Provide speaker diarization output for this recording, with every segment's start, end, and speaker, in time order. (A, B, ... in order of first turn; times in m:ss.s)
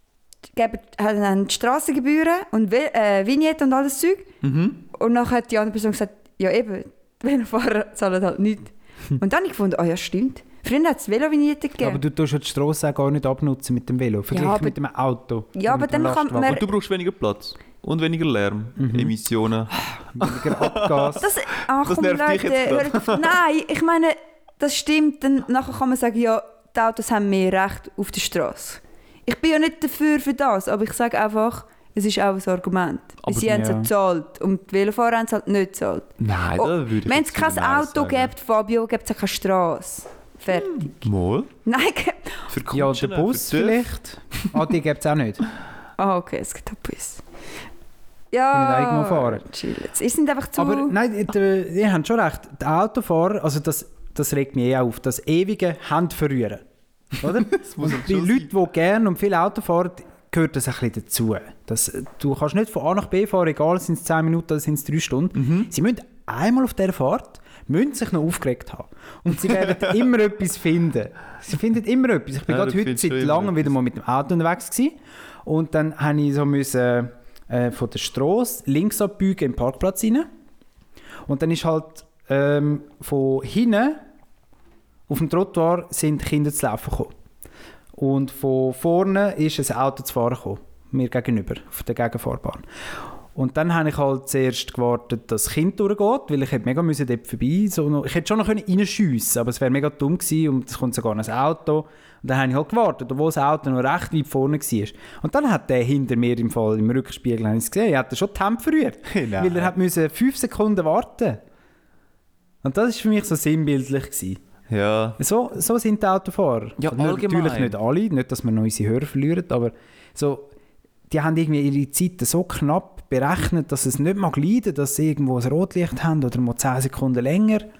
0:00.5-0:04.3 A
0:04.4-0:04.8 B
0:04.9-0:12.0 A
0:11.8-0:16.6 C
0:14.3-0:14.8 A
0:15.5-0:16.6 A
0:16.4-0:23.3 B
0:18.8-0:19.1 C
0:20.1-0:21.2 C
0:21.2-0:41.0 A
0:33.3-0:33.9 C
0:36.2-0:38.3 B
0:40.5-0:41.5 B
0:41.6-0:42.4 A
0:42.5-0:43.8 B
0:42.7-0:45.4 C
0:46.0-0:47.2 A
0:48.3-0:51.0 A
0:48.5-0:49.4 C
0:50.6-0:56.6 C
0:57.2-1:20.3 C
0:57.2-0:58.5 B
1:05.3-1:05.7 B
1:12.5-1:13.7 B
1:21.2-1:24.0 C
1:25.1-1:27.1 C
1:28.0-1:32.6 C
1:33.3-1:51.4 C
1:49.1-1:49.7 B
1:52.6-1:54.4 C
1:54.7-1:55.2 B
1:55.2-2:00.5 C
1:56.8-1:57.7 B
2:01.1-2:07.7 C